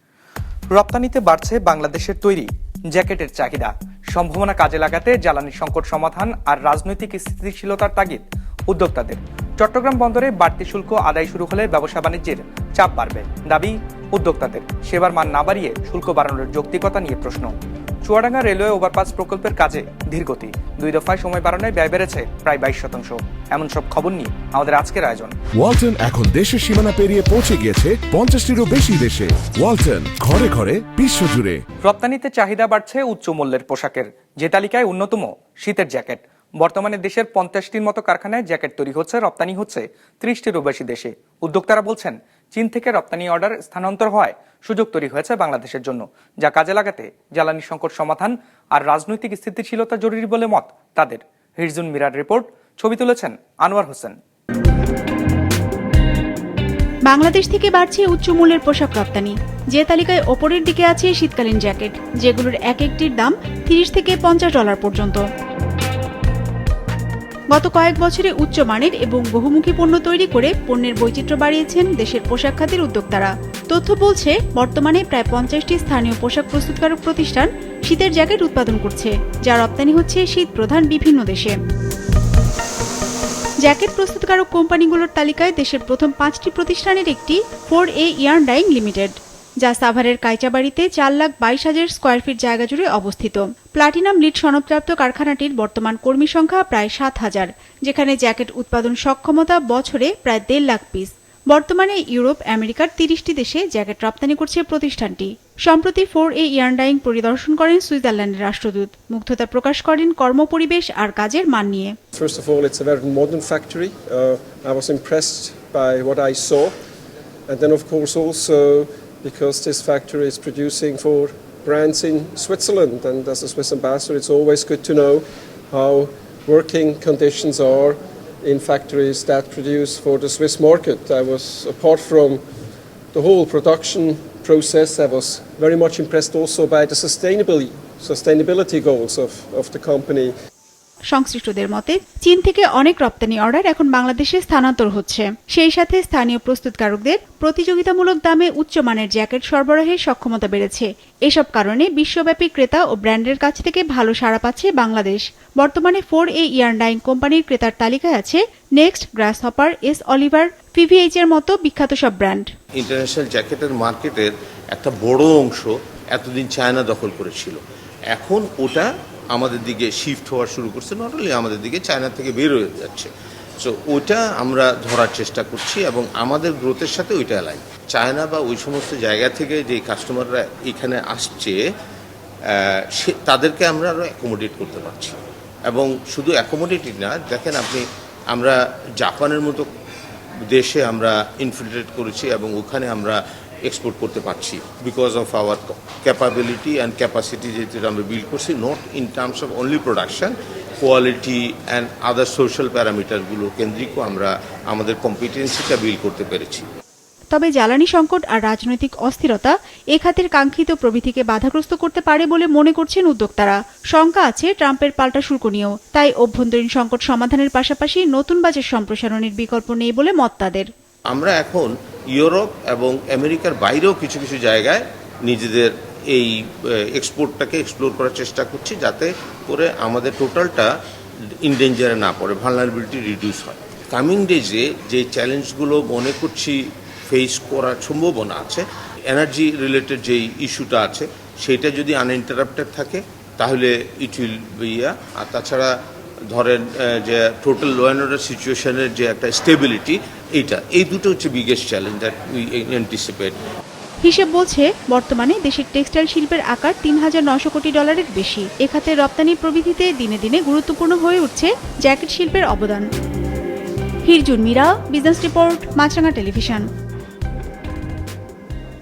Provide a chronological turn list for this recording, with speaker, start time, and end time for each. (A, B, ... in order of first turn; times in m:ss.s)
0:00.7-0:17.5 A
0:18.0-0:25.3 A
0:25.6-0:31.6 B
0:31.8-0:54.1 A
0:57.1-1:05.2 C
1:07.5-1:21.6 C
1:23.6-1:51.9 C
1:52.1-1:56.8 D
1:57.5-2:12.4 D
2:13.1-2:20.3 D
2:21.1-2:42.4 C
2:42.8-2:47.6 E
2:48.1-3:01.6 E
3:02.5-3:09.7 E
3:10.4-3:26.6 E
3:27.3-3:40.7 C
3:41.1-3:50.7 E
3:51.4-4:05.7 E
4:06.3-4:13.4 E
4:14.0-4:22.8 C
4:24.0-4:26.7 C